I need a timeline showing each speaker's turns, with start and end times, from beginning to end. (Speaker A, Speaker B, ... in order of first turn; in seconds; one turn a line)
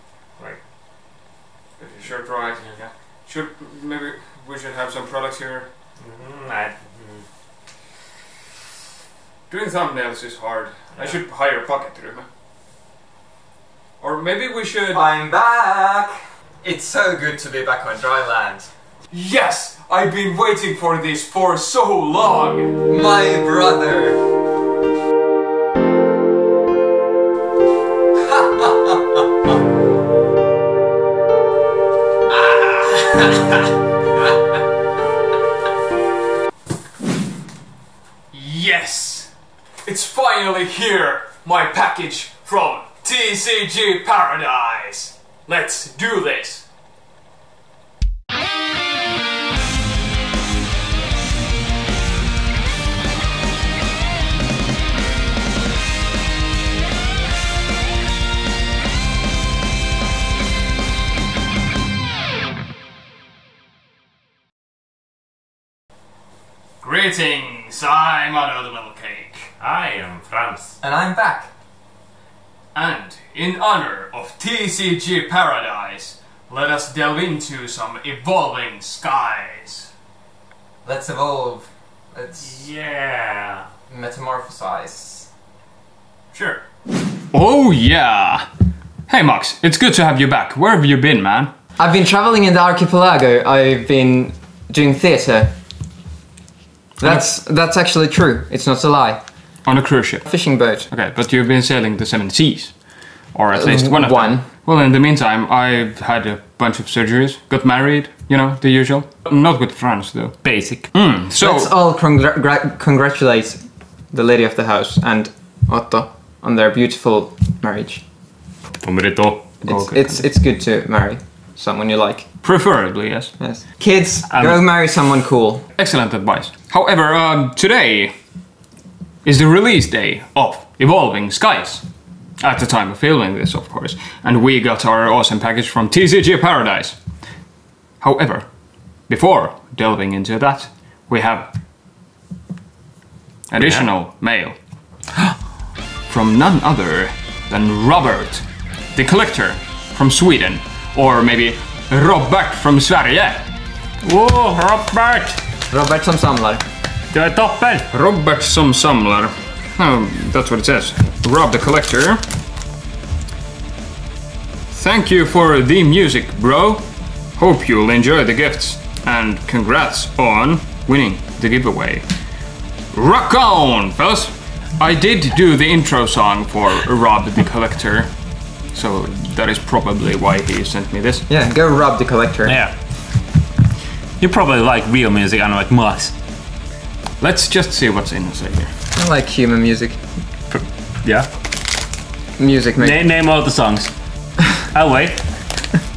Speaker A: 1.8-5.7
Speaker B: 6.0-7.2
Speaker A: 9.5-12.2
Speaker A: 14.0-15.0
Speaker C: 14.9-18.7
Speaker A: 19.1-22.8
Speaker C: 22.9-24.2
Speaker C: 28.2-29.2
Speaker A: 32.7-33.3
Speaker A: 38.3-39.3
Speaker A: 39.8-46.6
Speaker A: 66.8-69.5
Speaker B: 69.6-70.8
Speaker C: 70.8-71.5
Speaker A: 72.7-79.9
Speaker C: 80.8-82.5
Speaker B: 82.4-83.7
Speaker C: 83.9-85.3
Speaker A: 87.3-88.5
Speaker A: 89.1-91.5
Speaker C: 91.8-95.5
Speaker A: 97.0-97.2
Speaker C: 97.0-99.2
Speaker A: 99.7-100.3
Speaker C: 100.2-100.9
Speaker A: 100.9-111.7
Speaker C: 103.5-104.5
Speaker B: 110.4-110.9
Speaker C: 111.4-118.0
Speaker B: 118.8-119.5
Speaker A: 119.6-120.2
Speaker C: 119.7-122.3
Speaker A: 122.4-123.3
Speaker C: 123.4-125.7
Speaker B: 124.3-124.6
Speaker A: 125.8-128.1
Speaker A: 129.2-131.8
Speaker A: 132.4-137.0
Speaker A: 138.0-138.5
Speaker A: 139.1-141.5
Speaker A: 143.5-144.6
Speaker A: 146.1-153.5
Speaker B: 154.0-155.4
Speaker C: 155.7-156.6
Speaker B: 157.1-157.9
Speaker A: 157.9-162.2
Speaker A: 164.7-172.1
Speaker A: 172.9-178.1
Speaker A: 178.7-181.3
Speaker C: 181.3-182.6
Speaker B: 182.4-182.7
Speaker B: 184.2-186.1
Speaker A: 187.2-188.7
Speaker C: 188.9-190.0
Speaker B: 190.5-191.3
Speaker C: 192.4-193.0
Speaker B: 192.8-195.2